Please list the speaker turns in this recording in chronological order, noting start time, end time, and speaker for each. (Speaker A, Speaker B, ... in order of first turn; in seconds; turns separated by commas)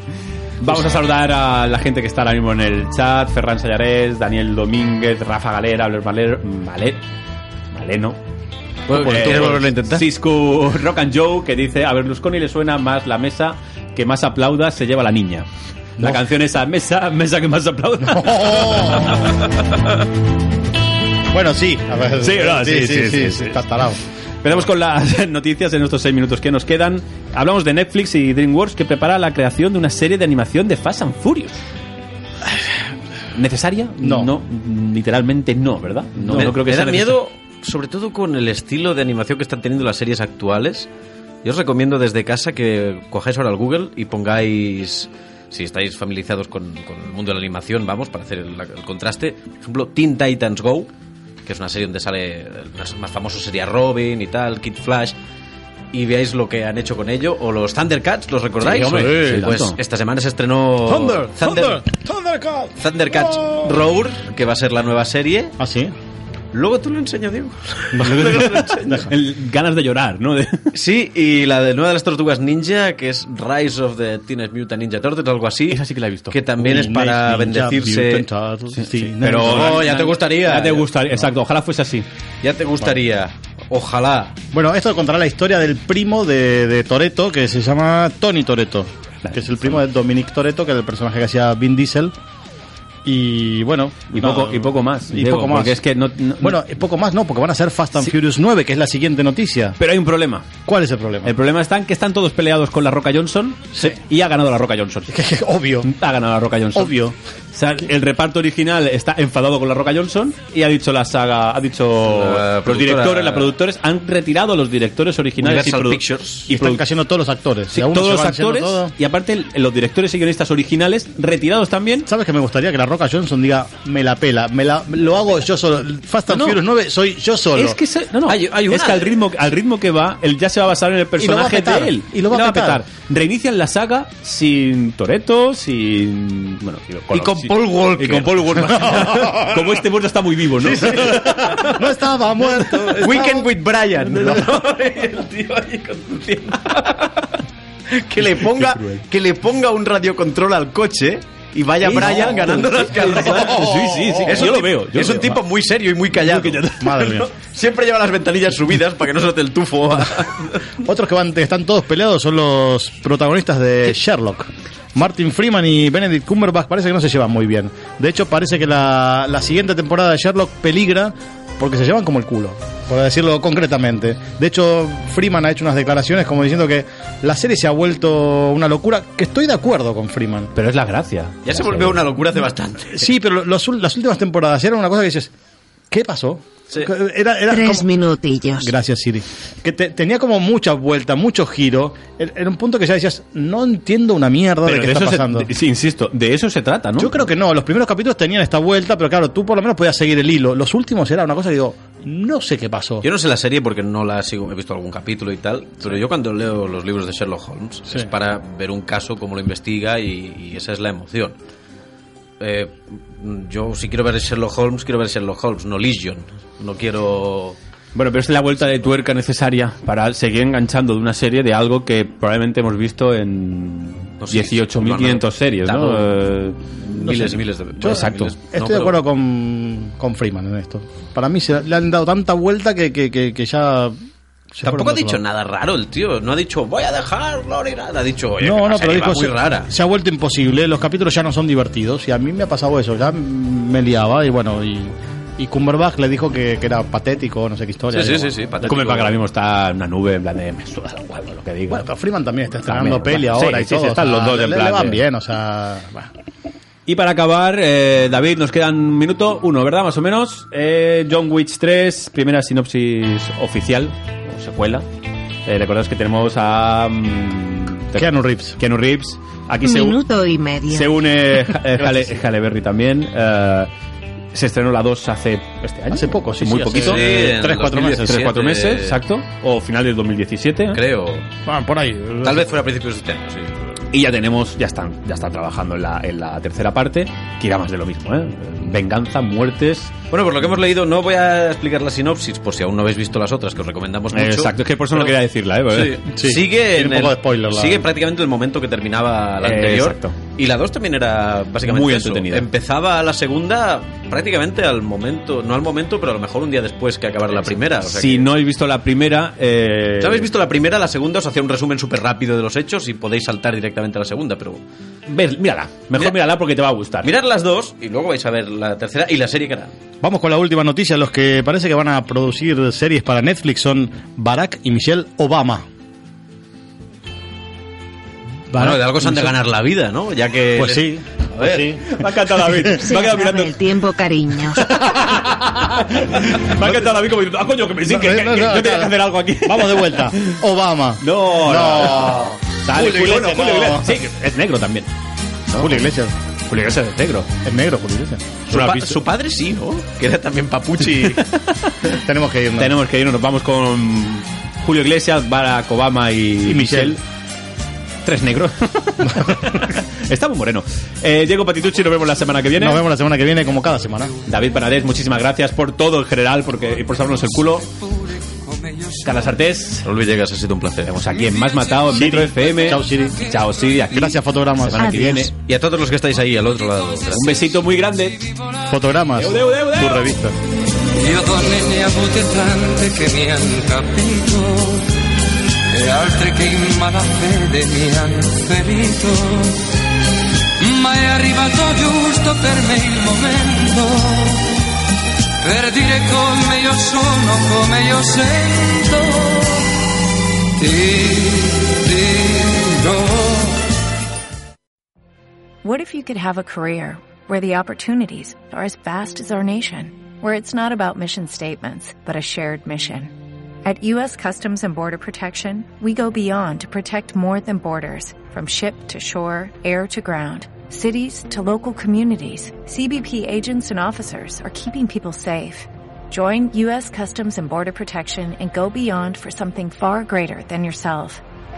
Speaker A: 0.6-7.0, Speaker A: 7.7-8.2, Speaker B: 8.9-10.1, Speaker A: 8.9-15.5, Speaker C: 8.9-9.7, Speaker A: 16.0-19.2, Speaker C: 18.0-19.4, Speaker C: 21.3-24.0, Speaker A: 22.2-23.7, Speaker A: 24.4-31.6, Speaker A: 33.3-37.2, Speaker C: 34.0-34.3, Speaker C: 36.2-36.6, Speaker B: 36.3-40.9, Speaker B: 41.4-50.9, Speaker B: 51.4-55.2, Speaker B: 55.9-61.8, Speaker A: 58.6-59.8, Speaker C: 58.8-59.3, Speaker C: 60.9-63.8, Speaker B: 62.8-65.5, Speaker C: 65.6-65.9, Speaker B: 66.5-69.1, Speaker C: 67.9-69.1, Speaker A: 68.1-70.7, Speaker B: 70.7-78.3, Speaker A: 75.7-76.4, Speaker C: 76.6-80.0, Speaker A: 78.7-82.1, Speaker B: 79.3-80.9, Speaker B: 82.4-84.4, Speaker C: 84.5-92.1, Speaker A: 89.2-89.7, Speaker C: 93.0-95.8, Speaker A: 94.1-96.6, Speaker C: 96.4-99.8, Speaker A: 99.8-100.5, Speaker C: 100.7-101.3, Speaker A: 101.2-105.1, Speaker C: 105.1-105.9, Speaker A: 105.8-107.0, Speaker C: 106.8-107.1, Speaker A: 107.5-116.8, Speaker B: 112.0-113.5, Speaker B: 115.4-116.5, Speaker C: 116.5-118.9, Speaker A: 117.7-122.1, Speaker C: 122.1-127.8, Speaker A: 126.3-126.6, Speaker A: 127.5-141.6, Speaker B: 128.2-129.1, Speaker C: 131.2-132.8, Speaker B: 137.1-139.3, Speaker C: 138.7-139.7, Speaker B: 140.6-141.8, Speaker C: 140.8-143.5, Speaker B: 142.9-147.4, Speaker C: 144.1-144.4, Speaker B: 147.9-153.7, Speaker A: 148.2-149.1, Speaker A: 151.8-155.4, Speaker C: 152.0-154.5, Speaker B: 154.3-160.6, Speaker A: 156.1-157.2, Speaker C: 156.8-157.3, Speaker C: 160.8-180.5, Speaker A: 180.5-182.0, Speaker B: 181.4-183.0, Speaker C: 182.9-185.3, Speaker C: 185.9-187.9, Speaker D: 187.5-188.7, Speaker C: 188.6-195.5, Speaker A: 194.6-197.2, Speaker C: 197.0-203.0, Speaker B: 203.0-211.3, Speaker B: 212.4-217.6, Speaker A: 217.9-226.7, Speaker B: 224.2-226.1, Speaker B: 226.8-229.0, Speaker C: 227.0-233.9, Speaker A: 227.8-228.3, Speaker C: 234.5-235.2, Speaker B: 234.6-239.7, Speaker C: 238.4-248.4, Speaker B: 247.9-249.2, Speaker A: 248.6-251.9, Speaker C: 251.7-256.1, Speaker A: 252.6-255.0, Speaker A: 256.9-264.8, Speaker A: 265.4-270.0, Speaker C: 267.9-268.6, Speaker D: 269.6-271.0, Speaker A: 270.7-273.7, Speaker C: 271.8-272.1, Speaker A: 274.3-277.3, Speaker C: 275.9-278.3, Speaker B: 276.7-279.0, Speaker A: 277.9-280.8, Speaker B: 280.7-281.3, Speaker C: 281.4-282.6, Speaker B: 282.2-283.7, Speaker A: 283.9-289.9, Speaker B: 290.1-295.1, Speaker A: 294.1-296.0, Speaker B: 295.7-308.3, Speaker C: 296.1-297.9, Speaker A: 299.4-300.2, Speaker A: 301.6-302.5, Speaker A: 307.4-310.3, Speaker B: 310.0-314.6, Speaker A: 315.1-317.1, Speaker B: 317.0-319.7, Speaker C: 320.0-325.6, Speaker C: 328.5-329.4, Speaker B: 328.5-331.8, Speaker C: 330.6-333.5, Speaker A: 331.9-333.5, Speaker D: 332.8-334.7, Speaker C: 334.5-335.9, Speaker A: 334.7-340.4, Speaker C: 337.9-343.9, Speaker A: 341.0-344.9, Speaker B: 342.8-343.1, Speaker A: 345.5-345.8, Speaker C: 345.6-346.1, Speaker A: 346.4-347.3, Speaker C: 347.4-348.6, Speaker B: 348.5-351.3, Speaker A: 348.5-349.0, Speaker A: 350.9-351.7, Speaker C: 352.0-352.7, Speaker A: 352.6-357.0, Speaker C: 356.4-357.0, Speaker A: 358.0-362.8, Speaker C: 362.6-364.1, Speaker A: 364.2-367.7, Speaker E: 367.6-369.3, Speaker A: 369.0-369.9, Speaker B: 369.8-370.9, Speaker A: 370.8-375.3, Speaker C: 371.9-373.2, Speaker C: 373.9-375.3, Speaker D: 374.8-375.2, Speaker B: 375.4-377.6, Speaker A: 377.1-378.3, Speaker E: 378.2-378.7, Speaker C: 378.7-380.4, Speaker A: 379.1-380.2, Speaker E: 380.9-384.9, Speaker E: 385.7-389.6, Speaker E: 390.6-394.5, Speaker E: 395.4-399.7, Speaker E: 400.6-403.7, Speaker F: 405.6-413.1, Speaker F: 413.6-431.2